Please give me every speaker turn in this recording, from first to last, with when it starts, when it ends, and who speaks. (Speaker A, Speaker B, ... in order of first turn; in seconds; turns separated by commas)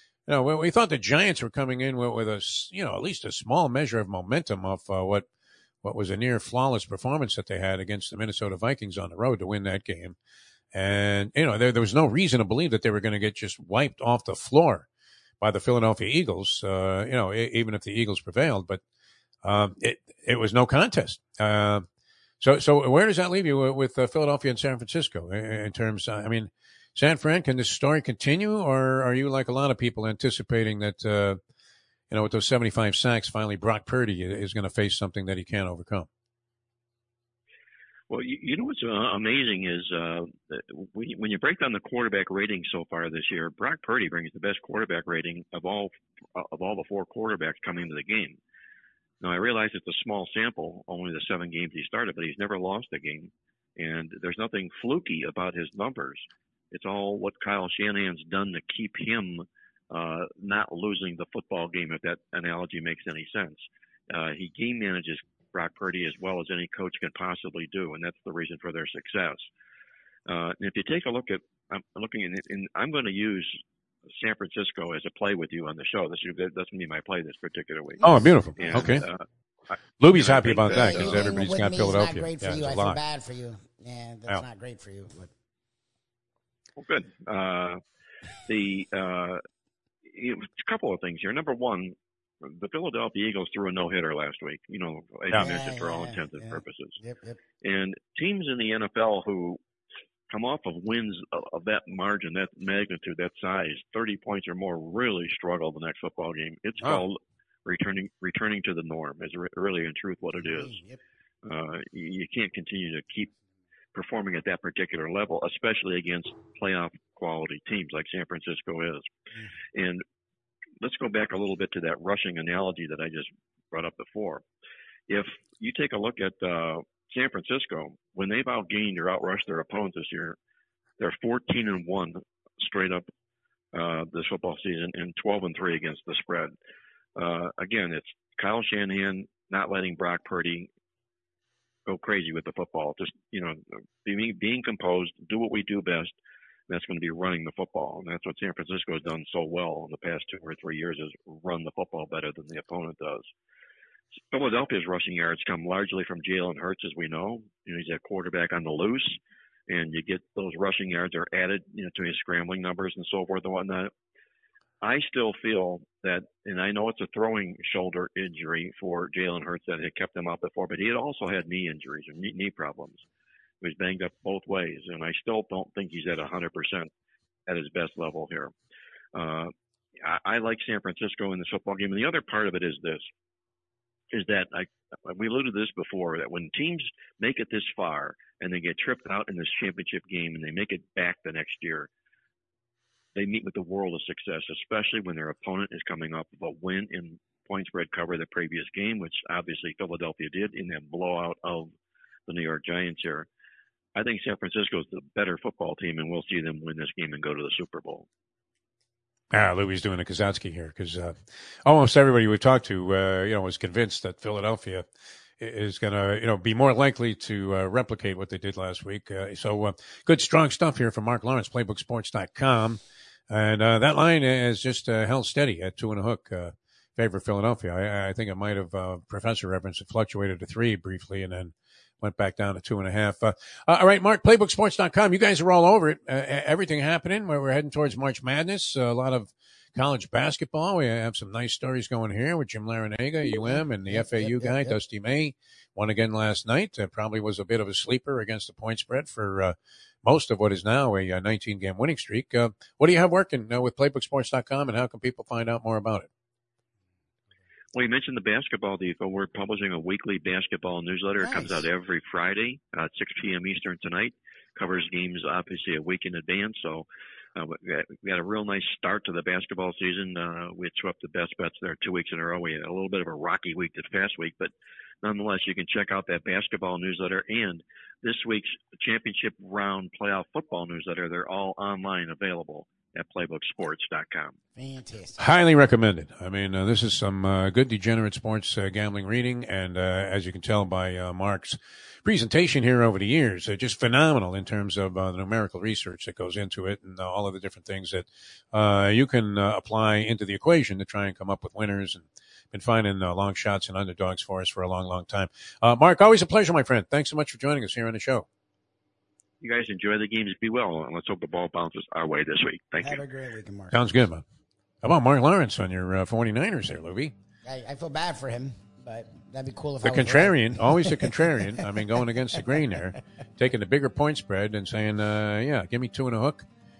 Speaker A: 0.3-5.3, Speaker A: 5.8-10.2, Speaker A: 10.7-14.9, Speaker A: 15.4-18.8, Speaker A: 19.4-21.9, Speaker A: 22.4-31.4, Speaker A: 32.1-36.1, Speaker B: 38.1-48.4, Speaker B: 49.2-69.5, Speaker B: 70.3-73.6, Speaker B: 74.2-81.5, Speaker C: 78.0-78.9, Speaker A: 78.0-79.0, Speaker A: 80.0-83.0, Speaker C: 80.7-85.3, Speaker B: 86.8-87.8, Speaker B: 88.5-89.4, Speaker B: 90.0-97.0, Speaker C: 95.3-97.4, Speaker B: 97.6-99.6, Speaker B: 100.3-110.8, Speaker C: 110.4-111.0, Speaker B: 111.4-113.3, Speaker B: 113.9-119.2, Speaker B: 119.7-120.0, Speaker B: 120.8-124.4, Speaker B: 125.1-130.4, Speaker B: 131.0-133.1, Speaker B: 133.7-136.5, Speaker B: 137.2-140.7, Speaker B: 141.8-146.1, Speaker B: 146.7-153.3, Speaker B: 154.3-163.9, Speaker B: 164.8-173.0, Speaker B: 173.6-176.9, Speaker B: 177.5-178.5, Speaker B: 179.1-183.1, Speaker B: 184.1-191.9, Speaker B: 193.1-201.7, Speaker B: 202.3-203.3, Speaker B: 203.9-208.1, Speaker A: 209.3-214.8, Speaker A: 215.4-256.1, Speaker C: 243.2-244.8, Speaker B: 257.7-284.4, Speaker C: 261.2-261.6, Speaker C: 284.6-285.2, Speaker A: 285.2-308.2, Speaker B: 309.4-313.0, Speaker C: 312.8-313.7, Speaker A: 313.7-314.2, Speaker A: 314.8-317.1, Speaker C: 317.4-321.2, Speaker A: 319.8-326.4